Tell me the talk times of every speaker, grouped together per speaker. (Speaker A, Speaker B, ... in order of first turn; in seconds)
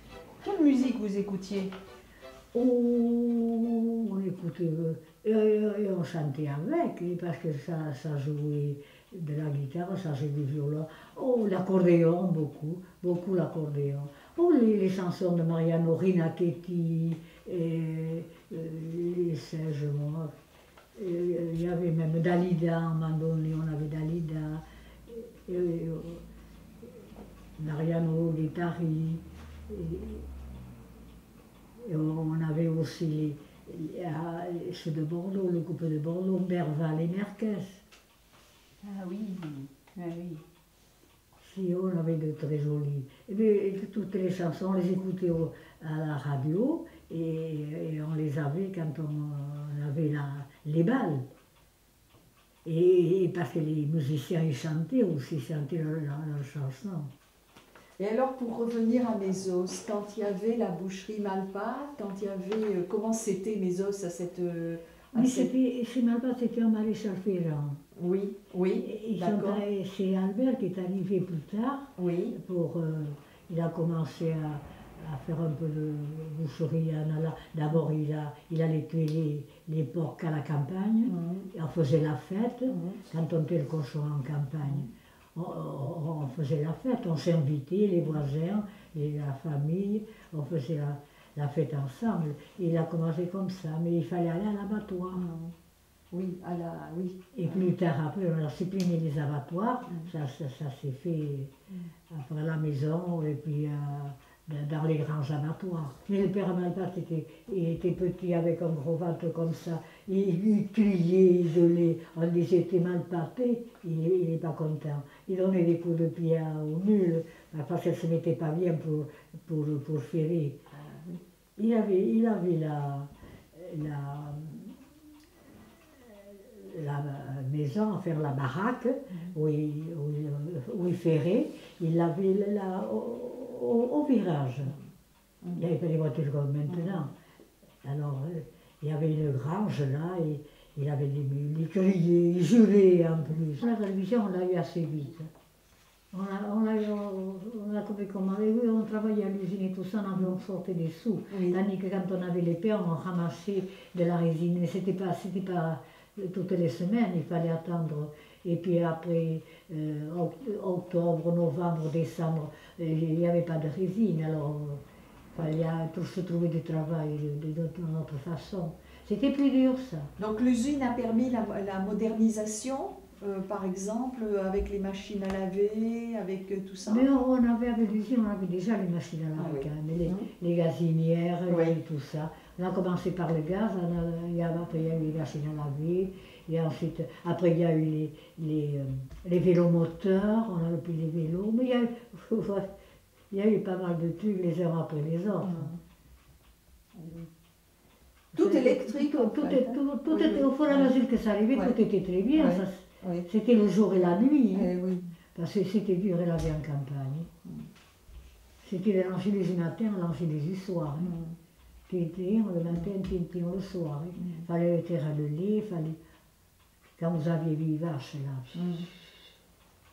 Speaker A: 0.4-1.7, 39.7-40.4
Speaker B: 2.5-20.3, 20.9-26.2, 27.6-30.2, 31.8-37.8, 41.4-51.2, 52.6-57.1, 65.1-67.8, 68.8-95.3, 97.3-101.5, 102.1-120.6, 121.6-124.8, 126.0-134.7, 135.5-137.1, 137.8-145.3, 146.1-164.8, 165.3-170.1, 176.8-192.7, 193.3-195.7, 198.3-204.7, 205.3-207.3, 208.6-211.1, 211.9-216.0, 217.0-219.1
Speaker C: 38.9-39.7, 58.0-65.5, 67.9-69.6, 72.0-72.3, 81.0-81.5, 82.7-83.0, 95.1-95.5, 96.1-97.7, 120.7-121.2, 136.7-137.1, 151.3-151.6, 170.2-177.1, 179.3-180.3, 181.5-181.8, 195.4-195.8, 196.9-197.3, 198.3-200.9, 201.5-201.8, 202.3-203.3, 204.5-205.1, 211.0-211.4, 214.2-214.5, 218.5-218.9